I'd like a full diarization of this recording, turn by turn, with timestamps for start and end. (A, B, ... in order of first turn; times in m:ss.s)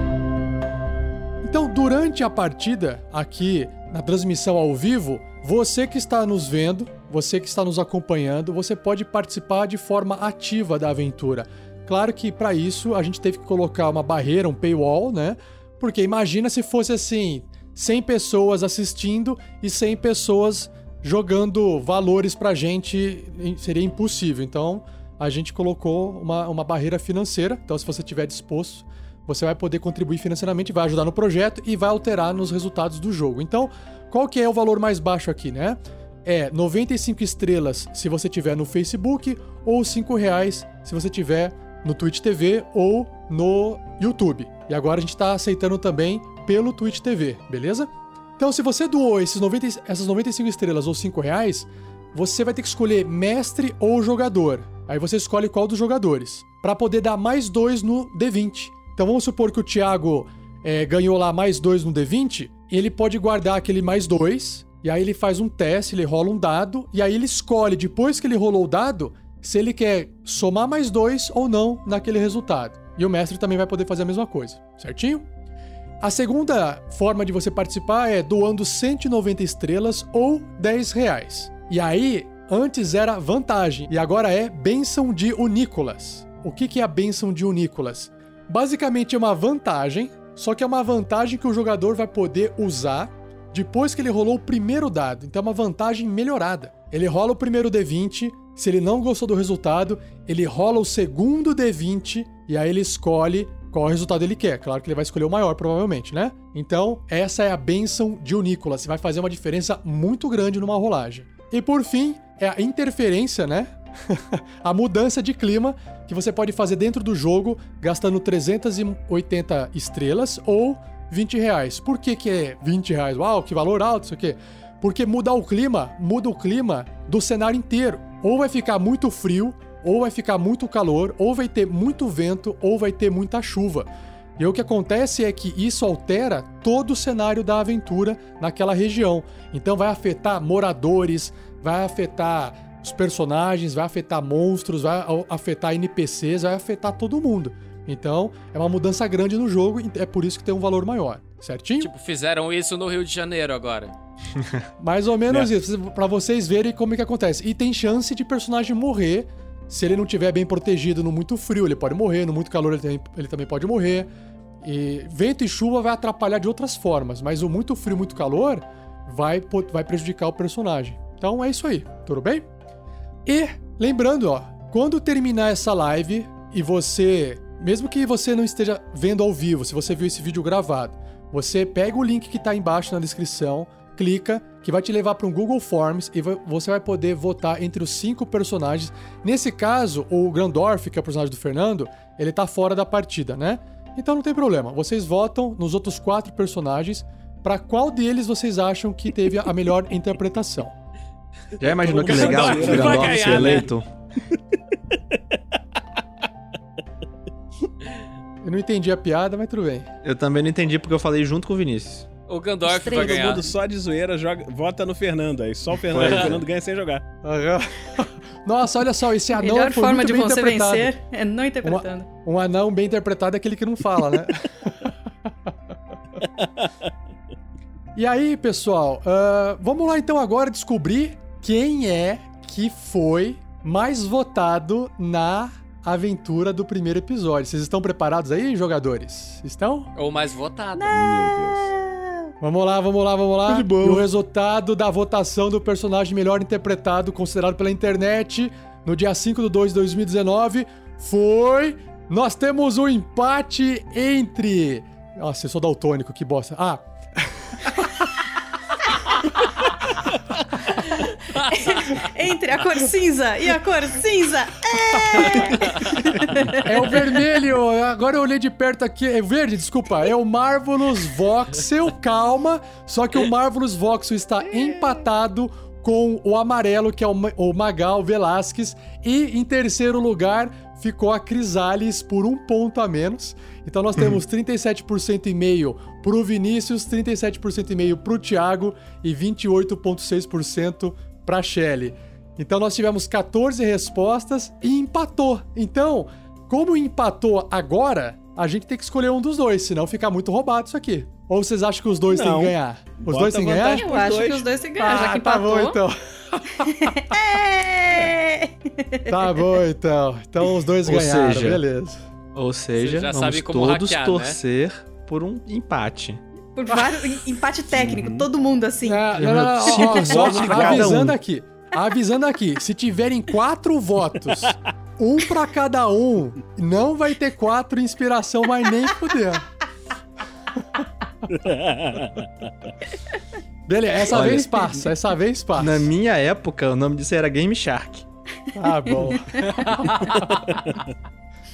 0:01.4-1:15.2 A
1:16.0-2:31.9 A
2:31.8-2:33.9 B
2:34.4-2:34.6 C
2:34.8-2:44.1 A
2:44.6-2:52.4 A
2:53.3-3:20.8 A
3:21.6-3:23.9 C
3:21.7-3:23.7 D
3:22.1-3:23.7 B
3:28.4-3:29.9 A
3:30.0-3:32.1 C
3:32.3-3:33.5 B
3:32.7-3:37.0 D
3:35.9-3:36.4 C
3:37.2-3:40.9 A
3:39.4-3:42.1 E
3:41.6-3:44.9 A
3:46.4-3:46.7 D
3:48.0-3:59.9 A
4:00.0-4:01.0 B
4:00.8-4:02.2 E
4:00.9-4:01.7 D
4:02.4-4:17.8 A
4:03.5-4:04.0 C
4:21.3-4:22.0 B
4:21.5-4:27.1 E
4:26.6-5:03.9 A
4:34.5-4:35.0 D
5:02.1-5:04.5 D
5:03.8-5:05.8 E
5:04.8-5:06.7 A
5:06.7-5:09.2 E
5:09.1-5:12.0 A
5:10.8-5:11.6 C
5:12.3-5:16.2 C
5:12.8-5:14.4 B
5:16.6-5:20.8 E
5:17.7-5:18.3 D
5:18.8-5:29.5 A
5:19.2-5:21.2 C
5:31.3-5:32.7 D
5:33.7-5:35.9 A
5:34.1-5:34.7 C
5:35.6-5:38.1 C
5:38.6-5:40.5 A
5:38.9-5:39.6 E